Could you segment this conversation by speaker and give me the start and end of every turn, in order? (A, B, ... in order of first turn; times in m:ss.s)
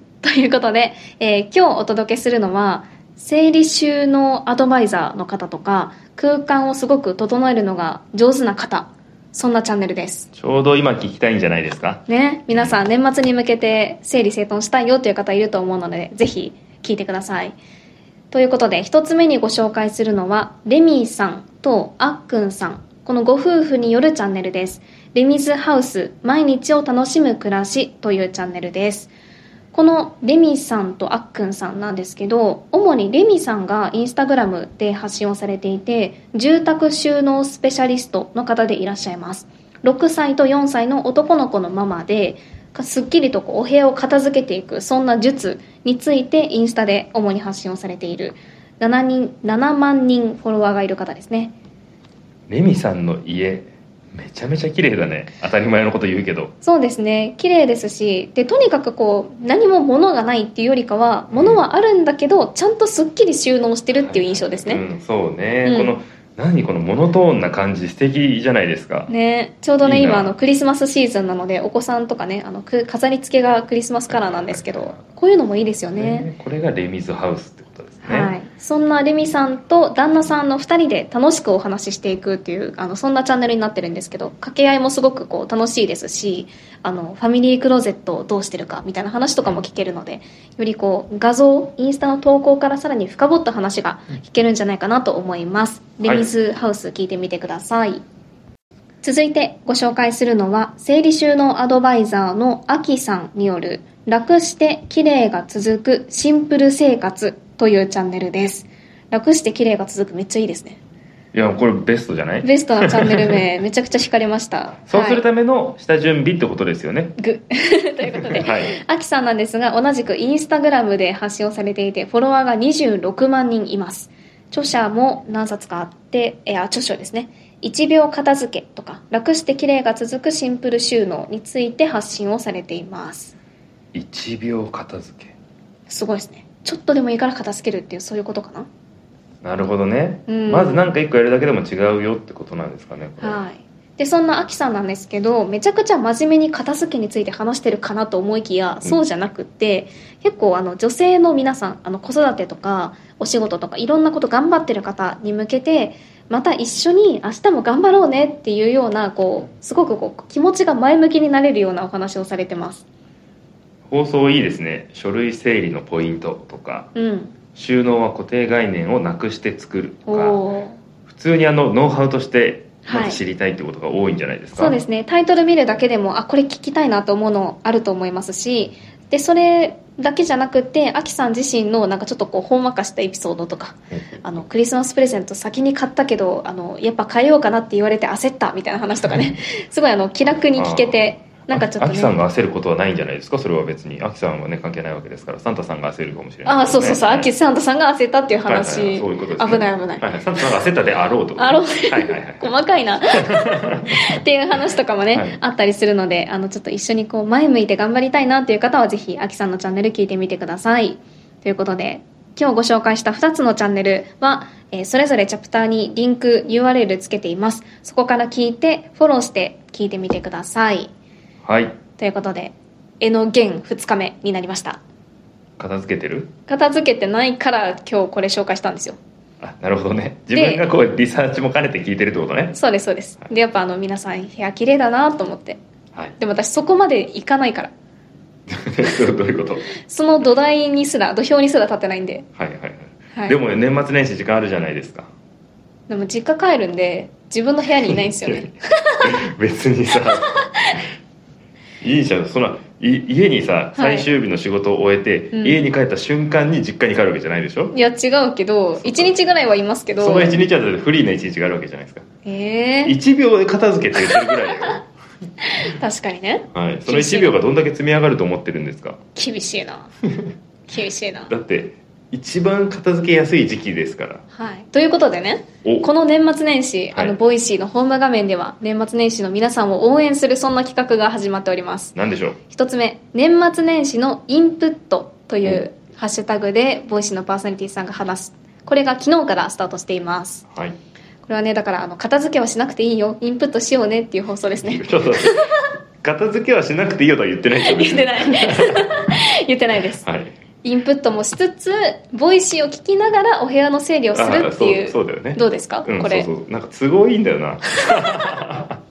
0:00.2-0:10.3 A
0:10.3-0:12.8 B
0:12.1-0:17.6 A
0:18.3-0:29.1 A
0:29.7-0:51.5 A
0:52.5-0:56.5 B
0:56.6-1:04.8 A
1:01.3-1:01.6 B
1:04.0-1:09.1 B
1:05.6-1:05.9 A
1:09.1-1:16.3 A
1:09.8-1:10.3 B
1:14.1-1:15.0 B
1:15.9-1:18.3 B
1:18.0-1:38.0 A
1:36.0-1:36.3 B
1:39.0-1:50.8 A
1:51.3-1:53.4 B
1:52.4-1:55.2 A
1:54.9-1:57.2 B
1:57.2-2:13.3 A
1:58.3-1:58.8 B
2:13.9-2:15.3 B
2:15.9-2:18.7 A
2:19.4-2:23.4 B
2:20.3-2:20.8 A
2:23.2-2:42.8 A
2:43.9-2:46.9 B
2:46.9-2:47.3 A
2:47.5-2:50.4 B
2:50.0-2:50.8 A
2:51.1-2:54.8 B
2:52.8-2:53.2 A
2:54.6-3:12.1 A
3:03.9-3:04.2 B
3:10.5-3:17.3 B
3:16.4-3:20.0 A
3:18.4-3:22.5 B
3:21.4-3:40.9 A
3:23.1-3:24.0 B
3:25.1-3:25.4 B
3:41.4-3:41.8 B
3:42.0-3:44.8 A
3:45.6-3:46.3 B
3:46.5-3:49.0 A
3:49.4-3:52.6 B
3:50.3-3:50.6 A
3:52.5-3:55.6 A
3:56.2-3:57.7 A
3:58.5-3:59.7 B
3:59.8-4:02.3 A
4:02.4-4:05.1 B
4:05.9-4:09.1 A
4:07.9-4:08.5 B
4:09.0-4:10.3 B
4:10.4-4:10.8 A
4:11.8-4:17.7 B
4:13.7-4:14.1 A
4:15.3-4:15.6 A
4:17.7-4:20.4 A
4:18.8-4:19.1 B
4:20.0-4:22.0 B
4:22.2-4:23.0 A
4:22.8-4:24.9 B
4:25.4-4:27.3 A
4:26.5-4:29.0 B
4:29.2-4:29.9 A
4:30.7-4:31.3 A
4:31.3-4:34.2 B
4:34.3-4:42.0 A
4:35.6-4:35.9 B
4:41.9-4:42.4 B
4:42.5-4:50.4 A
4:50.5-4:50.8 B
4:51.2-4:55.6 A
4:54.6-4:55.5 B
4:56.0-4:58.9 B
4:57.6-5:00.0 A
5:00.0-5:00.3 B
5:00.6-5:06.3 A
5:04.1-5:08.8 B